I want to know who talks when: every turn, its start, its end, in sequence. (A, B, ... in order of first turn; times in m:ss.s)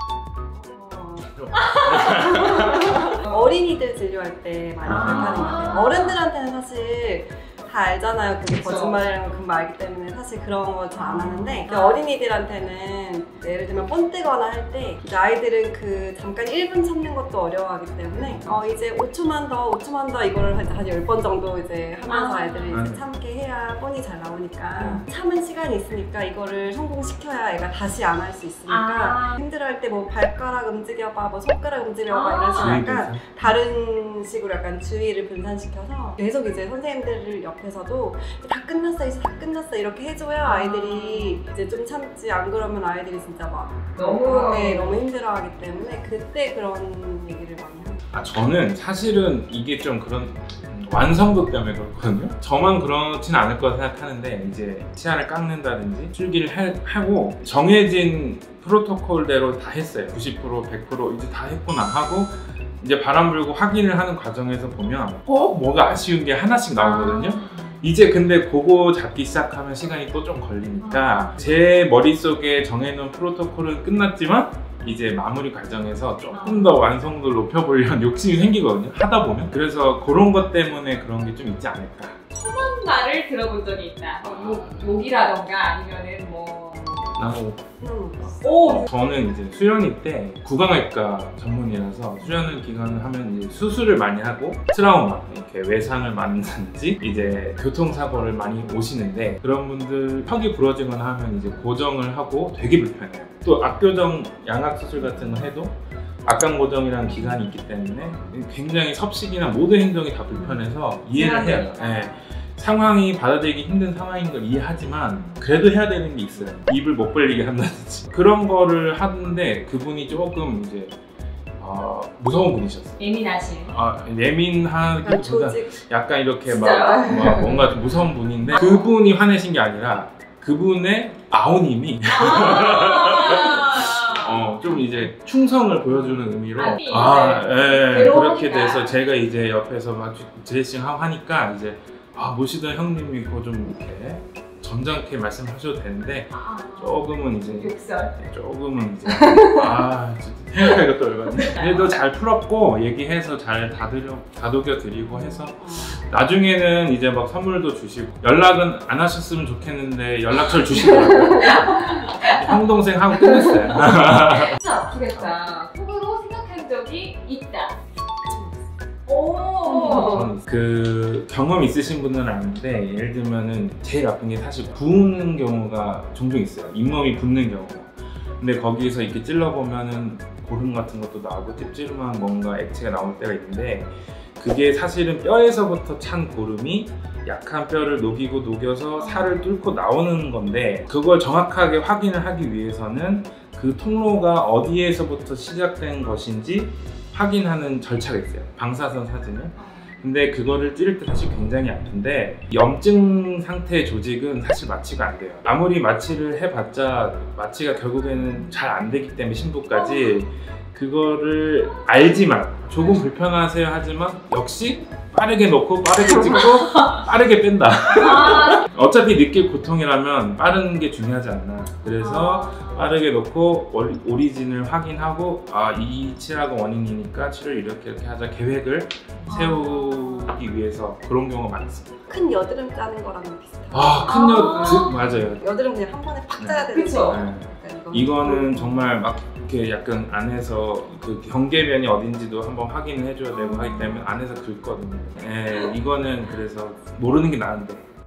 0:00.5-0:48.0 A
0:01.4-0:02.9 B
0:01.5-0:02.2 C
0:04.9-0:06.2 C
0:04.9-0:05.4 B
0:08.5-0:09.0 C
0:11.7-0:12.0 C
0:18.2-0:18.6 B
0:22.0-0:22.8 C
0:22.7-0:23.1 B
0:28.7-0:29.4 C
0:32.1-0:32.8 C
0:32.6-0:33.6 B
0:40.4-0:41.4 C
0:44.0-0:45.0 C
0:48.1-1:22.2 B
1:06.8-1:07.8 C
1:10.8-1:11.3 C
1:16.3-1:16.7 C
1:22.3-1:27.1 C
1:24.2-1:25.1 B
1:27.1-1:27.6 B
1:27.8-1:28.4 A
1:28.4-1:28.9 C
1:28.6-2:01.0 B
1:51.1-1:52.1 C
2:01.6-2:03.1 B
2:03.0-2:03.8 C
2:03.6-2:44.6 B
2:05.0-2:05.8 A
2:06.4-2:07.6 C
2:06.9-2:07.7 A
2:08.5-2:08.9 C
2:12.1-2:14.5 C
2:16.5-2:19.0 C
2:26.3-2:28.1 C
2:29.1-2:29.8 A
2:31.4-2:31.9 C
2:35.6-2:36.0 A
2:40.8-2:41.8 A
2:41.4-2:42.6 C
2:43.5-2:47.8 C
2:45.1-2:45.4 B
2:48.2-2:48.6 A
2:49.1-2:50.2 C
2:49.6-2:50.3 A
2:49.8-3:52.3 B
3:09.0-3:09.4 C
3:19.6-3:20.0 C
3:29.7-3:30.2 C
3:31.6-3:33.0 C
3:37.9-3:38.6 C
3:42.0-3:42.9 C
3:49.2-3:50.3 C
3:52.1-3:58.9 A
3:53.7-3:55.4 B
3:54.0-3:55.0 C
3:56.4-4:07.9 B
3:56.7-3:57.2 C
4:03.3-4:04.0 C